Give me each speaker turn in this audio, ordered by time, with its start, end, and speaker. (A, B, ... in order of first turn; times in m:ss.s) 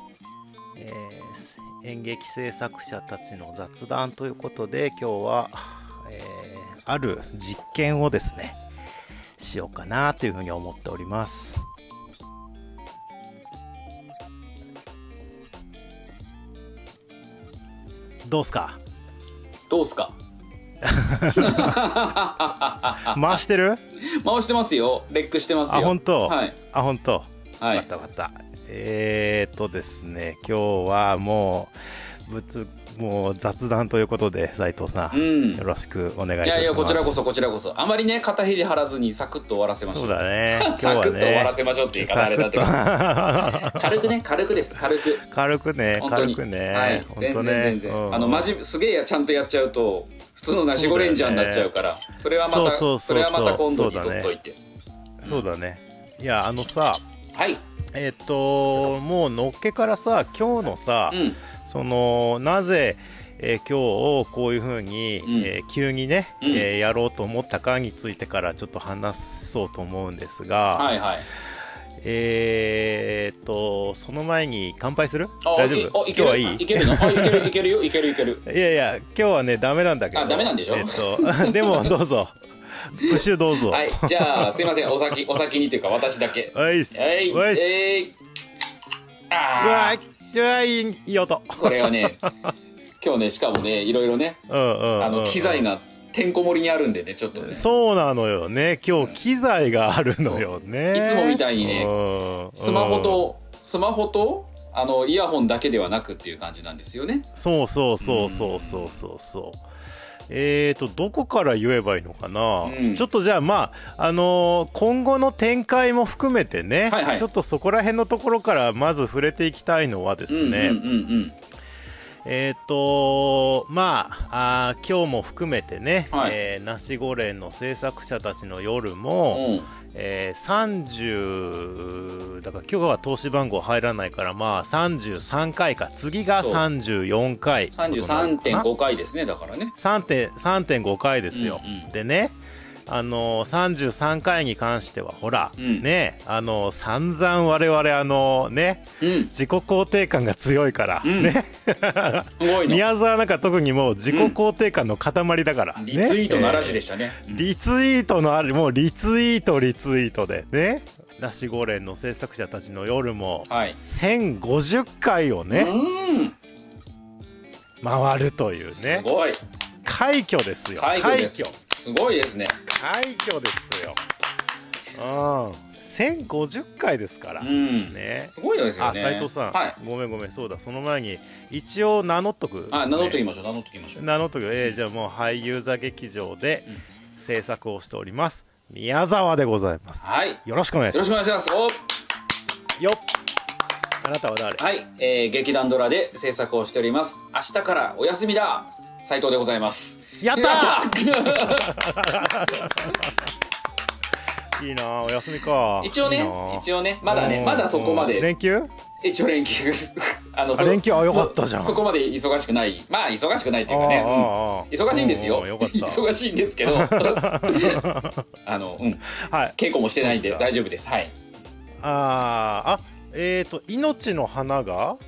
0:00.8-0:08.6 A
0:09.4-0:11.6 A
0:18.2-0:18.8 A
0:19.7-0:20.1 B
0:20.8-0:21.9 A
0:21.4-0:23.4 B
0:23.0-0:23.8 A
0:24.0-0:26.6 B
0:25.7-0:31.7 A
0:27.6-0:27.8 B
0:32.3-0:37.2 A
0:35.1-0:35.6 B
0:36.4-0:42.8 B
0:39.9-0:44.1 A
0:43.4-0:45.2 B
0:44.8-0:48.6 A
0:46.0-0:54.6 B
0:50.7-0:51.7 A
0:52.4-0:54.3 A
0:55.2-0:57.0 A
0:57.3-0:57.6 B
0:57.9-1:11.0 A
1:01.1-1:01.4 B
1:05.2-1:05.5 B
1:06.4-1:06.7 B
1:10.7-1:11.3 B
1:12.0-1:17.6 A
1:15.4-1:18.4 B
1:18.4-1:24.7 A
1:20.1-1:21.9 B
1:23.0-1:28.2 B
1:26.5-1:27.8 A
1:29.3-1:30.0 B
1:29.6-1:32.3 A
1:31.6-1:32.2 B
1:33.0-1:34.4 B
1:34.5-1:35.7 A
1:35.0-1:37.6 B
1:37.3-1:43.3 A
1:40.2-1:41.9 B
1:42.6-1:47.2 B
1:47.3-1:49.6 A
1:48.0-1:49.0 B
1:50.3-2:00.8 A
1:52.6-1:53.0 B
1:56.9-1:57.2 B
2:00.3-2:01.3 B
2:02.2-2:18.7 A
2:09.3-2:09.7 B
2:16.3-2:16.6 B
2:17.7-2:19.7 B
2:19.7-2:22.3 A
2:21.3-2:21.9 B
2:22.9-2:45.7 A
2:25.6-2:25.8 B
2:29.0-2:29.3 B
2:31.0-2:31.4 B
2:32.4-2:32.8 B
2:34.1-2:34.4 B
2:35.8-2:37.5 B
2:43.5-2:43.8 B
2:45.5-2:46.3 B
2:47.8-2:49.0 A
2:48.7-2:49.4 B
2:49.8-2:51.6 A
2:50.8-2:52.5 B
2:52.7-2:54.0 A
2:54.9-3:03.2 A
2:57.4-2:59.8 B
3:02.7-3:04.0 B
3:04.0-3:11.2 A
3:10.0-3:11.8 B
3:14.0-3:14.6 A
3:14.6-3:21.7 B
3:20.2-3:23.1 A
3:24.6-3:28.7 A
3:25.8-3:28.3 B
3:29.0-3:37.8 B
3:30.5-3:31.8 A
3:33.7-3:36.0 A
3:36.6-3:38.2 A
3:38.4-3:39.0 B
3:39.1-3:40.5 A
3:39.6-3:41.1 B
3:41.8-3:45.0 A